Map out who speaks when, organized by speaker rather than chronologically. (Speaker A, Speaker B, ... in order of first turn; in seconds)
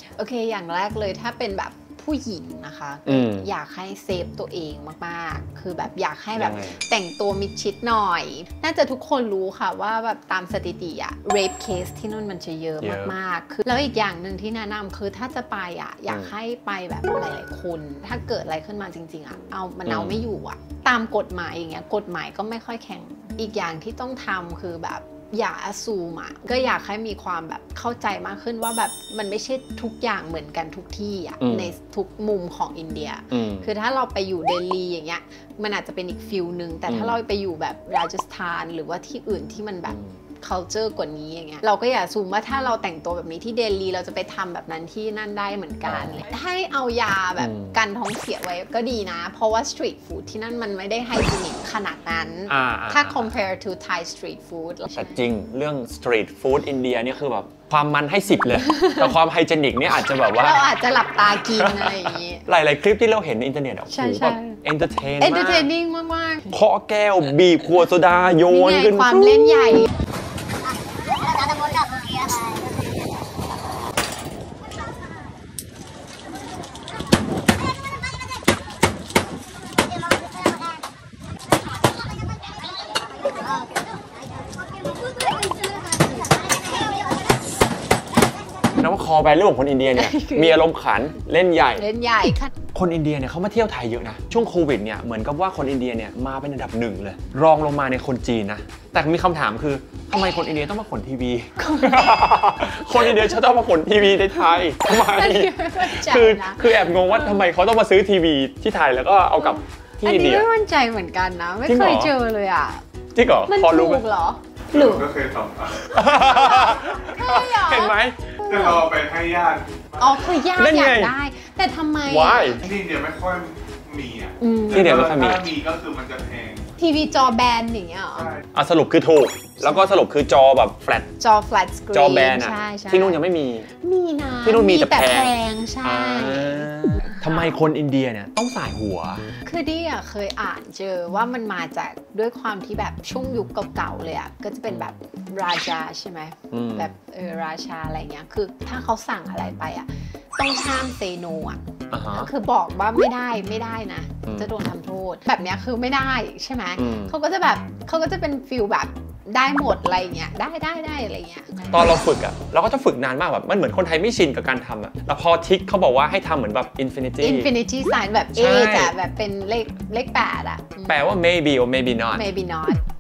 Speaker A: 0.2-55.2, 58.6-59.1, 60.3-62.5, 63.9-64.6, 65.2-66.6, 68.5-69.9, 89.9-90.6, 91.8-92.5, 101.6-102.3, 102.9-103.4, 104.5-107.5, 109.4-112.8, 113.5-115.1, 116.1-118.9, 120.0-122.6, 124.4-125.0, 126.8-128.3, 129.6-130.0, 131.2-137.6, 139.4-161.7, 167.2-171.1, 172.1-172.8
Speaker B: 3.1-3.5, 6.3-6.8, 12.8-13.2, 16.1-16.3, 19.9-20.2, 31.4-31.7, 33.3-33.7, 36.9-37.2, 39.9-40.2, 45.9-46.3, 47.4-47.8, 52.5-53.4, 54.9-60.7, 61.4-65.7, 66.5-69.9, 88.7-91.9, 92.7-110.5, 111.7-112.1, 113.1-114.0, 114.7-115.0, 115.9-118.2, 120.6-121.1, 122.1-122.7, 124.7-125.5, 128.5-131.1, 131.9-133.7, 134.4-139.2, 144.7-145.0, 146.5-146.9, 151.9-152.3, 154.3-154.5, 156.8-157.2, 161.7-167.5, 168.3-168.9, 170.9-172.3
Speaker C: 114.7-116.0, 118.5-120.2, 122.6-126.6